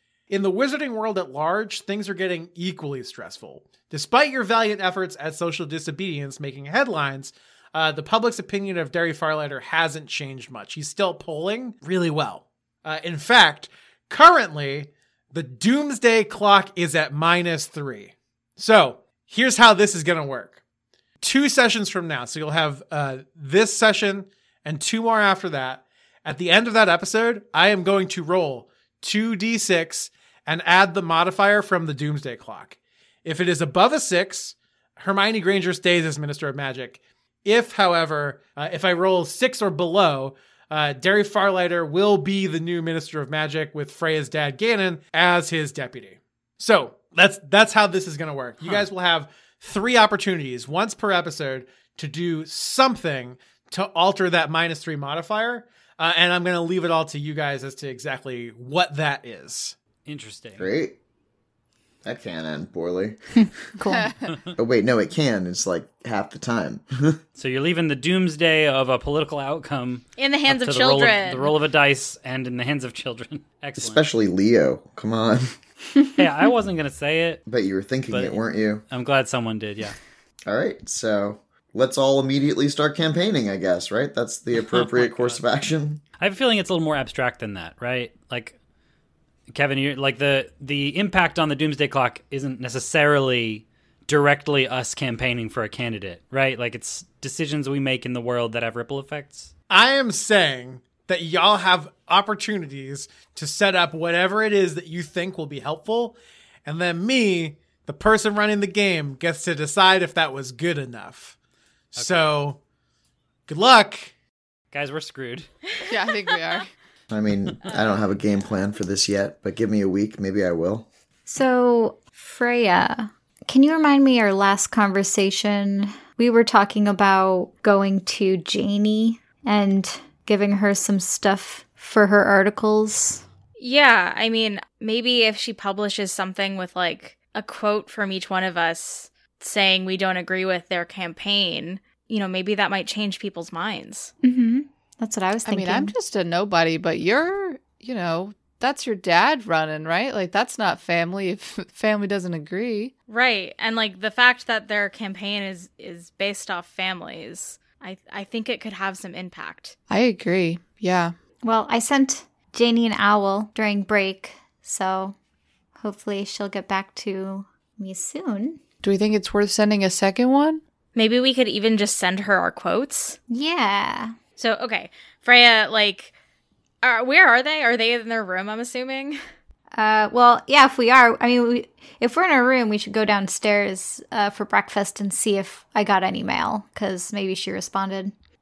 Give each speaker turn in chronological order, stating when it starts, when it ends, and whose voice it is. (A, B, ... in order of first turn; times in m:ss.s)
0:00.3-0:20.6 A
0:21.2-0:59.7 A
0:48.6-0:48.8 B
1:00.0-1:00.7 B
1:00.6-1:01.0 C
1:02.0-1:03.2 C
1:03.4-1:04.1 D
1:04.2-1:04.5 B
1:04.6-1:07.2 C
1:07.4-1:14.0 B
1:10.2-1:11.5 E
1:13.8-1:15.6 C
1:16.2-1:17.4 B
1:17.4-1:18.8 C
1:18.1-1:20.0 B
1:20.4-1:26.0 C
1:24.6-1:25.4 B
1:26.2-1:28.6 B
1:29.5-1:39.5 B
1:39.7-1:51.4 A
1:52.0-1:52.3 B
1:52.0-1:52.6 A
1:53.5-1:54.1 A
1:54.7-1:55.5 B
1:55.9-1:56.7 F
1:57.1-2:00.9 C
2:01.3-2:13.2 D
2:13.6-2:24.1 E
2:24.2-2:25.9 D
2:25.4-2:32.9 F
2:33.1-2:39.8 E
2:39.9-2:41.1 F
2:41.4-2:45.1 D
2:45.8-2:48.6 D
2:48.8-2:50.6 F
2:51.0-2:53.2 E
2:53.3-2:54.2 D
2:54.4-2:56.1 E
2:56.8-2:59.2 E
2:59.8-3:08.1 D